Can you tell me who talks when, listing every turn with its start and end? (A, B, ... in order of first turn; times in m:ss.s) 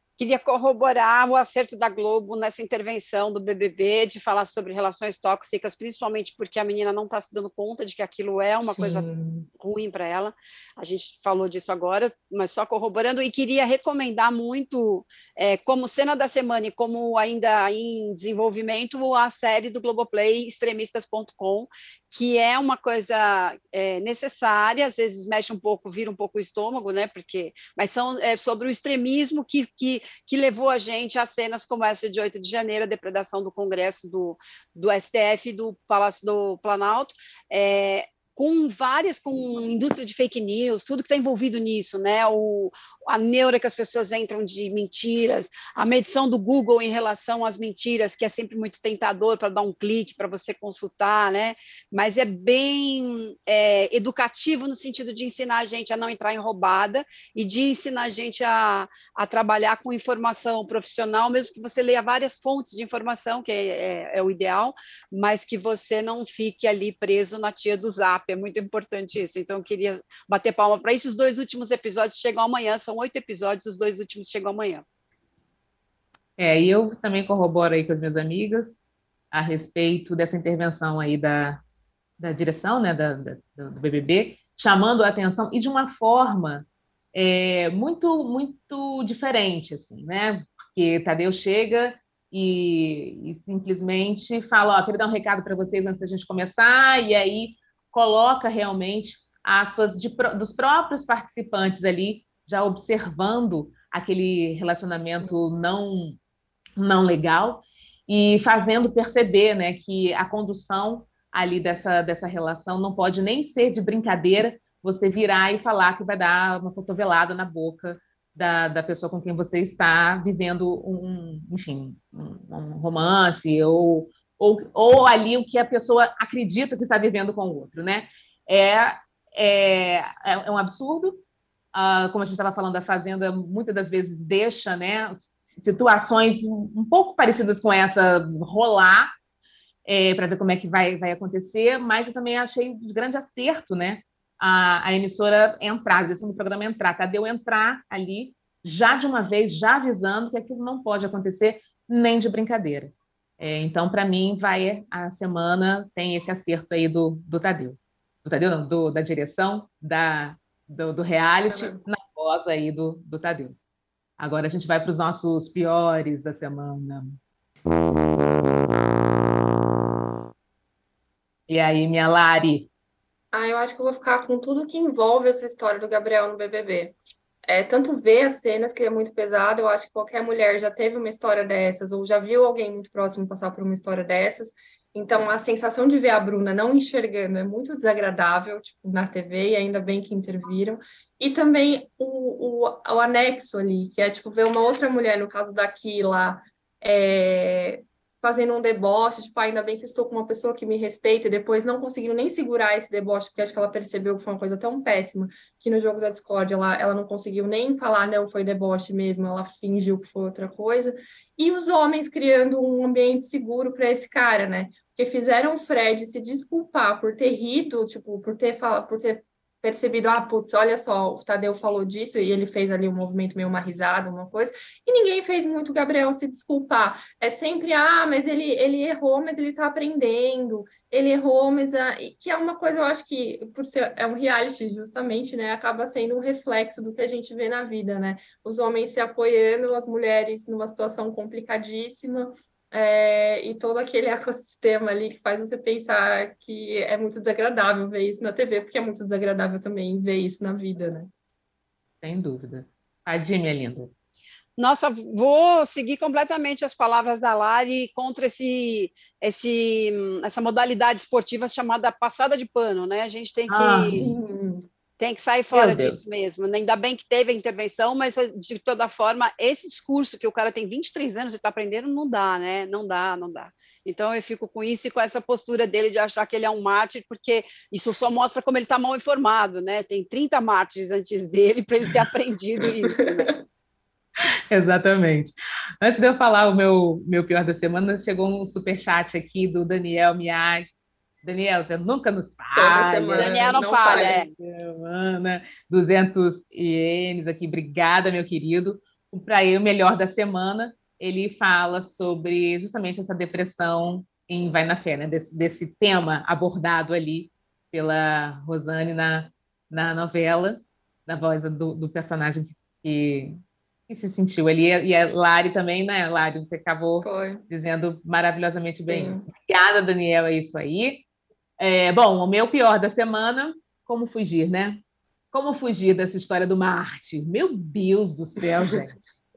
0:00.2-0:09.0 A
0:08.8-0:09.5 B
0:09.6-1:14.8 A
1:16.4-1:21.6 C
1:22.2-1:46.2 C
1:46.8-2:11.2 C
2:11.7-2:19.1 C
2:19.9-2:43.6 C
2:41.5-2:41.8 B
2:44.2-2:47.2 C
2:51.5-2:52.7 C
2:53.3-4:11.1 B
4:12.0-4:13.9 C
4:14.6-4:24.0 A
4:23.5-4:24.1 C
4:23.9-4:24.7 B
4:25.0-4:43.3 A
4:25.5-4:26.0 C
4:44.5-4:50.6 C
4:51.2-5:21.0 C
4:52.6-4:54.2 B
4:53.2-4:54.3 A
5:17.0-5:17.4 B
5:18.8-5:19.2 B
5:21.6-5:24.8 C
5:25.3-5:29.2 C